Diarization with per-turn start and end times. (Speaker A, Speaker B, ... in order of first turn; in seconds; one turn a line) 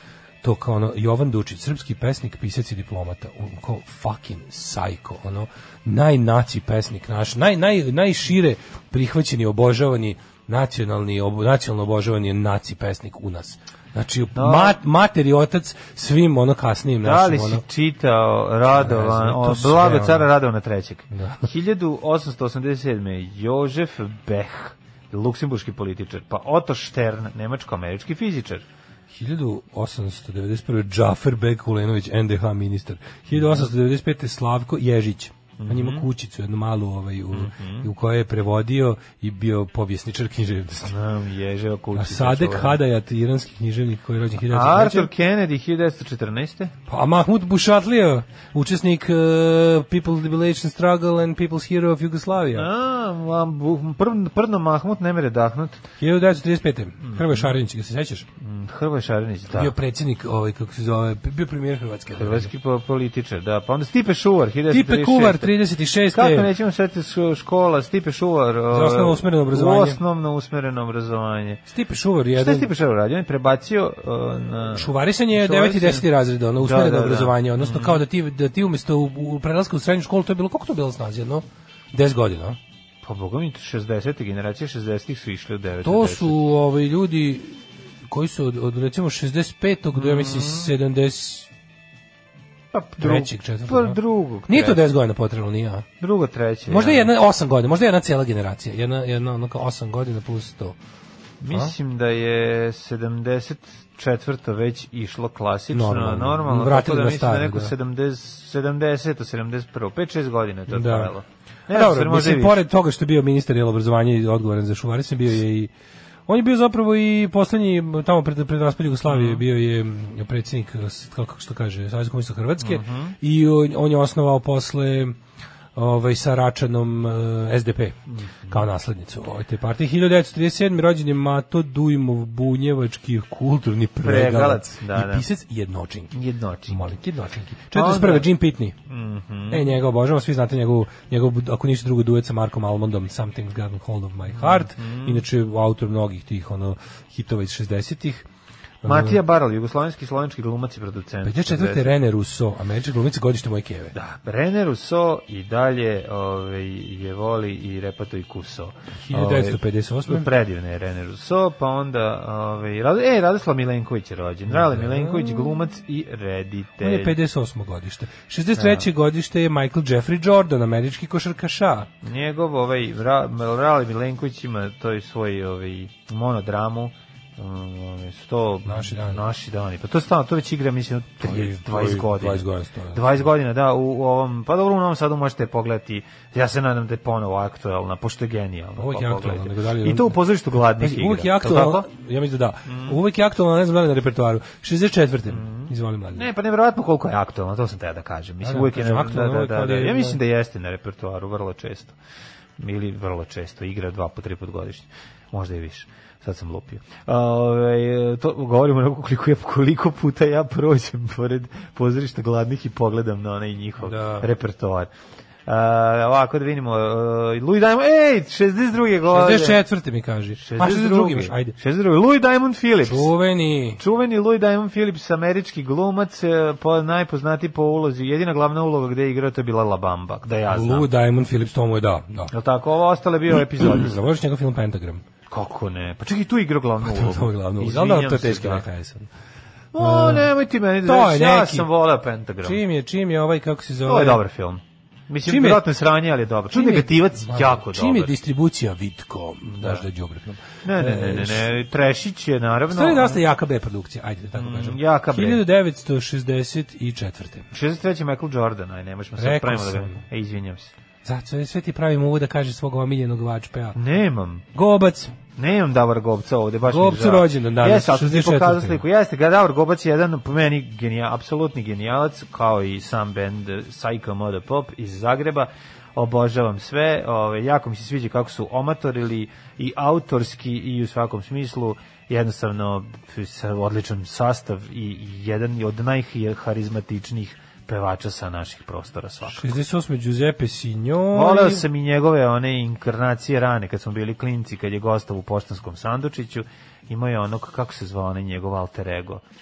Speaker A: 0.4-17.6
Speaker B: 14.3-14.8
Speaker B: 17.0-28.6
Speaker A: 18.7-20.3
Speaker A: 21.1-21.5
Speaker A: 29.1-41.0
Speaker B: 33.3-33.7
Speaker B: 35.6-36.1
Speaker B: 37.3-37.9
Speaker B: 40.9-42.8
Speaker A: 42.0-45.1
Speaker B: 44.5-46.7
Speaker A: 46.9-52.7
Speaker B: 52.5-55.8
Speaker A: 56.0-58.3
Speaker B: 57.0-57.5
Speaker B: 58.4-59.7
Speaker A: 59.5-62.5
Speaker B: 62.1-65.6
Speaker A: 64.7-66.5
Speaker B: 66.1-71.6
Speaker A: 68.7-70.0
Speaker A: 71.7-72.7
Speaker B: 72.3-76.1
Speaker A: 74.7-82.6
Speaker B: 76.6-78.0
Speaker B: 83.0-86.4
Speaker A: 85.8-91.5
Speaker B: 90.0-90.7
Speaker B: 92.7-94.8
Speaker A: 93.0-95.9
Speaker B: 96.0-97.1
Speaker A: 96.7-100.8
Speaker B: 101.4-112.6
Speaker A: 105.7-107.7
Speaker A: 110.7-111.1
Speaker A: 111.7-115.7
Speaker A: 116.3-125.2
Speaker B: 119.1-119.4
Speaker B: 122.6-123.2
Speaker A: 125.8-128.0
Speaker B: 128.1-128.6
Speaker A: 128.5-136.1
Speaker B: 134.0-135.2
Speaker B: 136.1-136.8
Speaker A: 136.7-138.8
Speaker B: 137.7-138.3
Speaker B: 138.9-139.7
Speaker A: 139.5-148.3
Speaker B: 144.3-145.2
Speaker A: 148.8-149.2
Speaker B: 148.8-151.9
Speaker A: 151.2-153.9
Speaker B: 153.9-167.2
Speaker A: 159.1-160.3
Speaker A: 164.5-165.6
Speaker A: 166.8-171.9
Speaker B: 168.6-168.9
Speaker B: 172.0-191.9
Speaker A: 178.7-179.2
Speaker A: 181.2-183.2
Speaker A: 188.8-190.2
Speaker A: 190.7-196.3
Speaker B: 192.7-193.0
Speaker B: 195.3-202.0
Speaker A: 198.4-200.2
Speaker B: 202.6-214.9
Speaker A: 213.8-214.3
Speaker B: 215.5-219.6
Speaker A: 219.1-221.6
Speaker B: 220.4-223.1
Speaker A: 222.8-223.8
Speaker B: 223.8-230.9
Speaker A: 230.5-232.3
Speaker B: 232.3-233.9
Speaker A: 233.3-235.0
Speaker B: 235.3-238.6
Speaker A: 236.8-239.1
Speaker B: 239.7-242.6
Speaker A: 239.8-240.3
Speaker A: 240.8-241.7
Speaker A: 242.4-244.2
Speaker B: 243.8-248.1
Speaker A: 245.2-245.6
Speaker A: 246.5-251.5
Speaker B: 249.5-249.8
Speaker B: 250.6-253.2
Speaker A: 252.7-257.5
Speaker B: 254.4-255.4
Speaker B: 257.5-260.7
Speaker A: 259.2-260.0
Speaker A: 261.0-263.8
Speaker B: 263.8-264.4
Speaker A: 264.5-265.1
Speaker B: 265.4-289.5
Speaker A: 266.7-268.8
Speaker A: 289.3-291.7
Speaker B: 291.1-299.2